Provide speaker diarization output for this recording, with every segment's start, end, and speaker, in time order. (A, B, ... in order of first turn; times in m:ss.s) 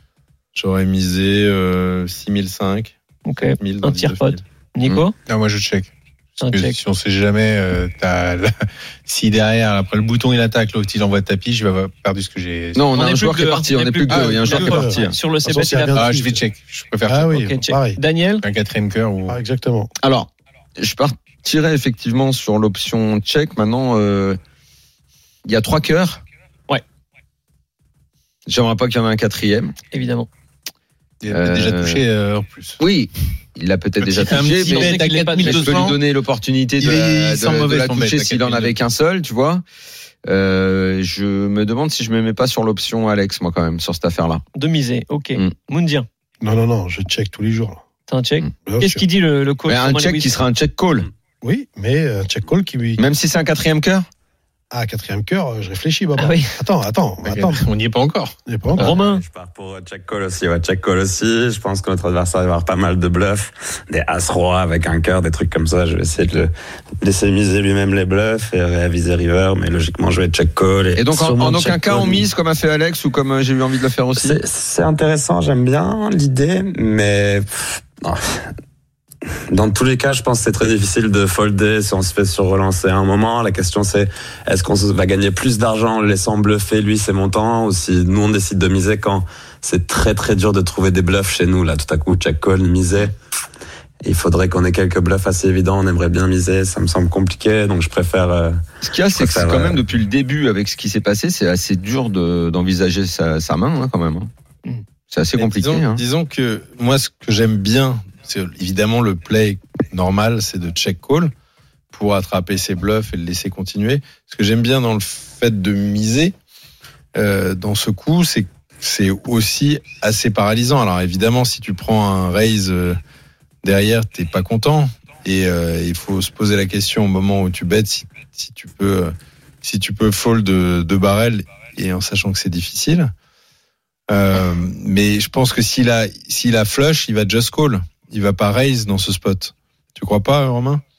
0:00.5-0:02.9 A
0:03.2-0:05.1 B
0:03.6-0:04.4 A
0:05.3-0:12.8 C
0:06.4-0:06.8 B
0:12.7-0:15.2 D
0:12.9-0:16.1 B
0:14.1-0:16.4 E
0:15.9-0:17.6 C
0:17.0-0:18.0 E
0:17.3-0:18.4 B
0:18.4-0:19.4 C
0:19.3-0:19.9 E
0:20.0-0:24.4 D
0:25.4-0:26.2 D
0:28.5-0:29.7 D
0:29.9-0:30.3 B
0:31.2-0:32.8 C
0:31.3-0:32.0 D
0:32.8-0:39.6 D
0:34.0-0:36.0 C
0:34.4-0:35.9 B
0:36.8-0:38.7 C
0:40.2-0:44.4 D
0:44.5-0:46.0 B
0:46.4-0:47.8 E
0:48.1-0:50.4 B
0:48.6-0:49.0 E
0:49.7-0:51.1 D
0:51.4-0:53.0 E
0:53.0-0:54.1 D
0:54.7-0:57.6 E
0:56.2-0:56.6 B
0:57.2-0:58.4 C
0:58.5-0:59.0 E
0:58.8-0:59.2 B
0:58.8-1:06.5 F
1:07.0-1:12.3 F
1:11.0-1:14.4 D
1:14.2-1:17.4 F
1:18.0-1:18.5 F
1:19.5-1:33.1 F
1:34.0-1:39.8 F
1:38.8-1:44.3 D
1:45.1-1:46.0 D
1:45.4-1:51.3 A
1:51.9-1:56.3 A
1:57.1-2:03.0 A
2:03.6-2:13.1 A
2:14.1-2:20.8 A